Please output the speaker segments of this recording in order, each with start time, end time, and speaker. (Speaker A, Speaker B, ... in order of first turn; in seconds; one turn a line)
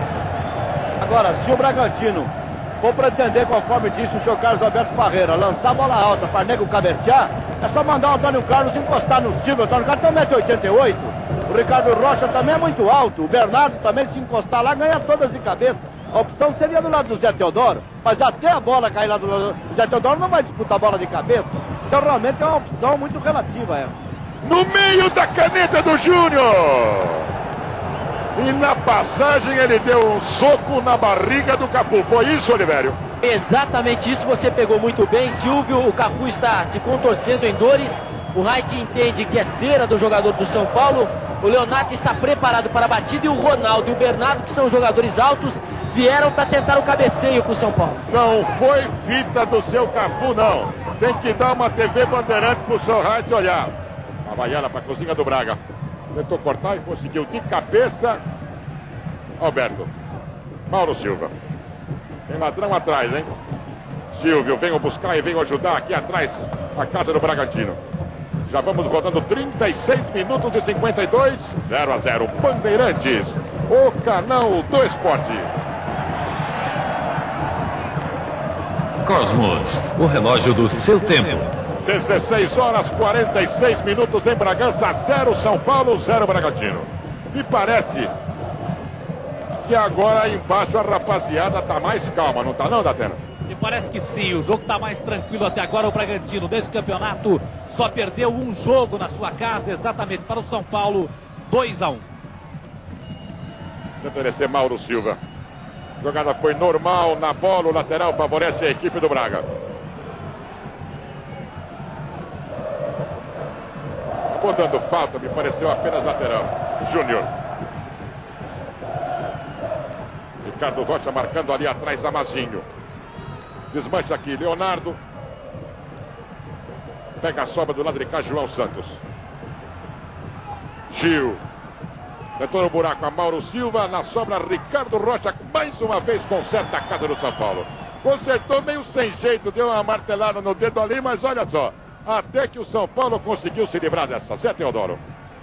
Speaker A: 1.0-24.0
Speaker B: 24.4-27.3
Speaker B: 28.4-33.0
Speaker C: 33.2-48.0
Speaker B: 48.1-53.7
Speaker B: 54.2-55.6
Speaker B: 56.1-58.2
Speaker B: 59.4-59.9
Speaker B: 60.7-61.3
Speaker B: 62.3-63.4
Speaker B: 64.1-67.8
Speaker B: 68.5-75.5
Speaker D: 79.0-81.5
Speaker B: 81.8-88.1
Speaker B: 89.7-93.2
Speaker E: 93.5-102.0
Speaker B: 104.0-105.2
Speaker B: 106.0-109.5
Speaker B: 114.3-117.3
Speaker B: 120.4-122.6
Speaker B: 123.7-125.0
Speaker B: 127.2-129.0
Speaker B: 130.9-131.4
Speaker B: 132.4-145.0